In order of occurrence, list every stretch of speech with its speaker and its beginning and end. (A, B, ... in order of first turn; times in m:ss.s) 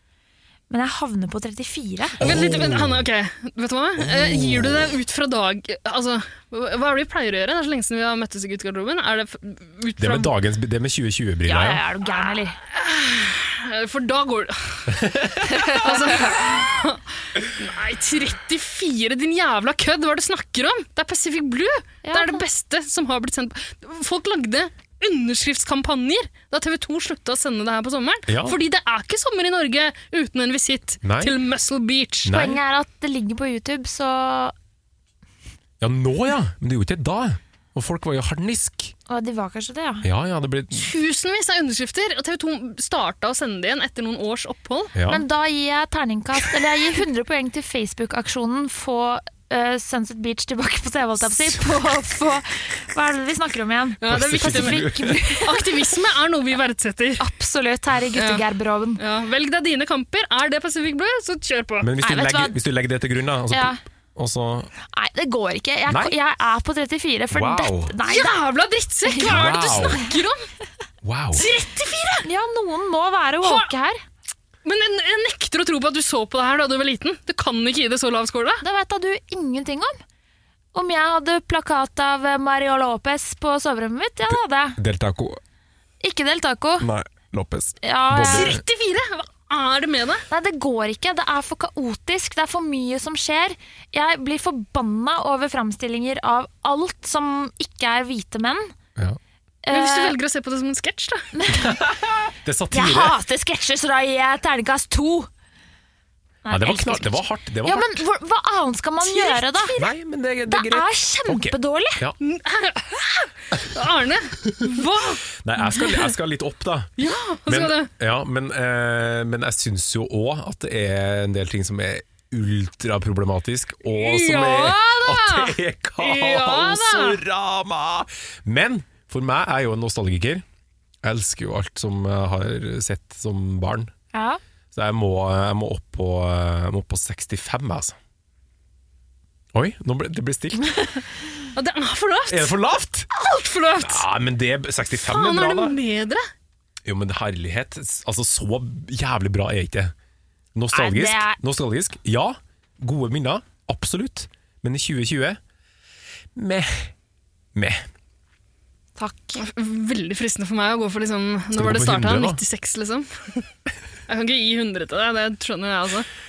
0:00.7-0:02.2 A
0:02.2-0:03.1 B
0:02.2-0:10.3 C
0:04.0-0:04.9 B
0:10.0-0:11.8 B
0:11.5-0:12.6 A
0:12.6-0:15.1 C
0:15.0-0:15.6 B
0:15.6-0:15.9 A
0:15.7-0:32.3 C
0:22.0-0:22.4 A
0:28.3-0:28.6 B
0:31.0-0:31.4 B
0:32.2-0:32.6 B
0:32.3-0:34.5 A
0:35.8-0:38.9 B
0:39.1-0:40.1 A
0:40.0-0:40.9 B
0:40.7-0:45.0 C
0:45.0-0:45.2 B
0:45.1-0:55.6 A
0:54.0-0:57.2 C
0:54.1-0:55.2 B
0:57.2-0:59.0 A
0:58.2-0:58.4 C
0:59.0-1:01.9 C
1:01.8-1:04.7 B
1:02.0-1:02.6 A
1:03.5-1:03.8 A
1:04.9-1:08.4 A
1:05.9-1:06.1 B
1:07.3-1:08.0 B
1:08.1-1:10.4 C
1:09.1-1:10.1 A
1:09.2-1:10.0 B
1:11.0-1:11.5 B
1:11.4-1:12.3 C
1:12.2-1:14.0 A
1:14.6-1:18.6 C
1:18.6-1:20.0 A
1:20.7-1:24.8 A
1:24.3-1:25.4 B
1:26.0-1:26.9 A
1:26.8-1:28.6 B
1:27.8-1:28.5 A
1:28.3-1:30.2 C
1:30.3-1:38.7 A
1:39.6-1:40.2 A
1:39.7-1:41.3 C
1:41.4-1:41.7 A
1:41.5-1:43.2 B
1:42.7-1:45.3 A
1:46.4-1:49.9 A
1:46.5-1:48.0 B
1:49.0-1:49.8 C
1:49.8-1:52.2 B
1:50.5-1:52.0 A
1:52.2-1:56.1 C
1:55.4-1:56.9 B
1:57.0-1:57.9 C
1:57.5-2:10.4 B
2:04.0-2:07.2 C
2:11.0-2:13.9 B
2:14.1-2:14.4 A
2:14.7-2:18.0 B
2:19.5-2:20.9 B
2:21.6-2:22.6 C
2:22.3-2:23.1 B
2:23.1-2:24.1 C
2:23.8-2:25.8 B
2:25.0-2:26.2 C
2:26.8-2:29.9 B
2:30.6-2:35.4 B
2:30.7-2:31.4 A
2:36.4-2:36.9 B
2:37.6-2:37.9 B
2:39.0-2:39.4 A
2:39.4-2:43.5 C
2:41.5-2:42.4 B
2:44.1-2:46.1 C